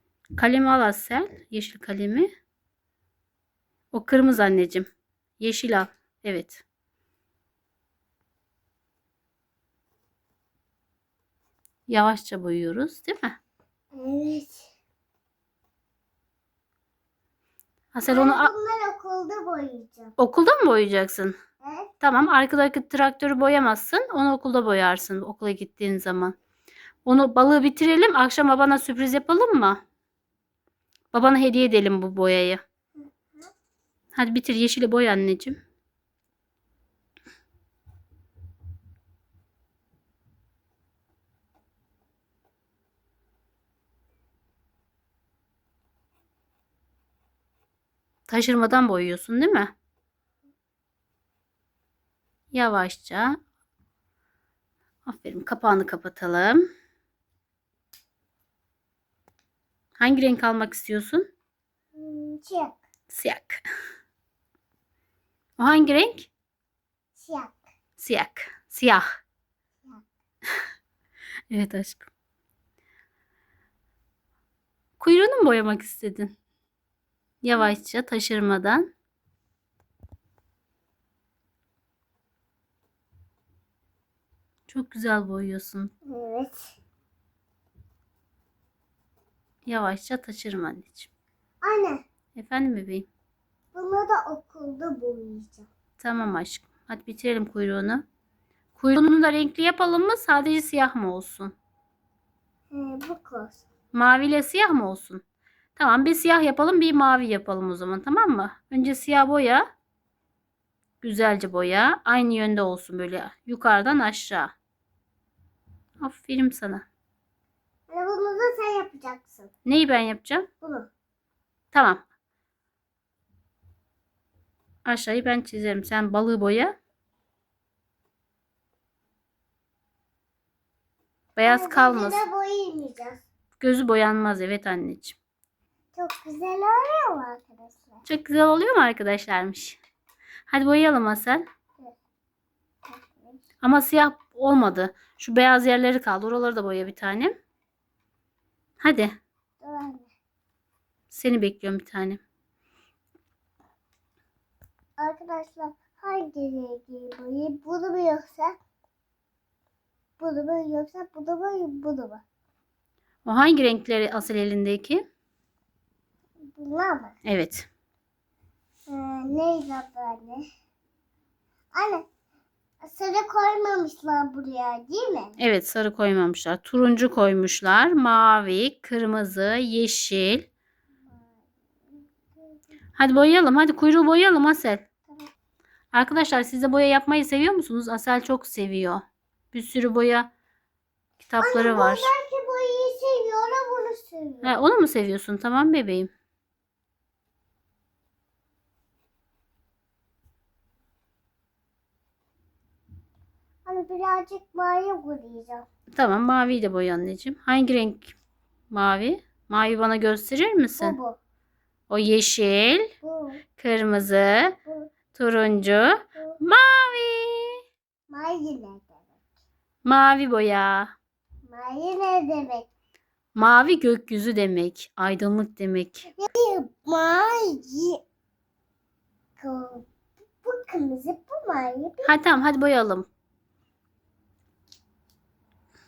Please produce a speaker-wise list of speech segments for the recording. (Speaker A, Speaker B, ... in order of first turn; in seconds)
Speaker A: 0.4-2.3, 3.9-4.9, 5.4-6.6, 11.9-13.4, 17.9-18.5, 20.2-21.4, 22.0-26.4, 27.1-29.8, 31.1-32.6, 34.1-35.6, 48.3-49.7, 52.5-53.3, 55.0-56.6, 60.0-61.3, 63.1-63.6, 65.6-66.3, 68.0-69.0, 71.5-72.1, 75.0-76.3, 77.4-78.9, 84.7-85.9, 89.7-91.1, 92.3-93.1, 96.0-98.0, 98.8-101.5, 103.9-105.2, 105.8-109.7, 111.0-114.5, 116.0-116.8, 119.7-120.5, 121.7-122.0, 124.8-126.8, 131.4-132.2, 133.6-135.2, 138.1-139.8, 140.5-141.4, 143.6-147.4, 148.8-149.1, 151.1-152.2, 163.2-165.0, 167.2-167.7, 175.4-180.5, 183.0-184.8, 185.9-190.3, 191.2-192.1, 194.4-196.1, 205.9-208.2, 208.7-211.0, 211.9-212.9, 213.6-214.6, 215.2-217.6, 219.8-220.9, 223.3-226.1, 232.0-233.1
Speaker B: 13.9-14.7, 18.0-20.1, 21.6-21.9, 33.0-33.5, 62.0-62.8, 67.2-67.6, 86.0-86.8, 91.6-92.0, 93.7-95.7, 102.7-103.6, 117.9-119.5, 120.6-120.9, 131.4-133.2, 135.9-138.0, 142.9-143.4, 149.6-150.1, 155.0-158.6, 160.2-162.2, 166.5-167.2, 168.9-170.4, 171.7-172.1, 172.8-175.4, 191.4-194.6, 203.7-205.7, 210.8-211.2, 213.0-213.4, 218.1-219.2, 221.5-222.7, 226.2-228.0, 229.4-229.9, 230.4-232.1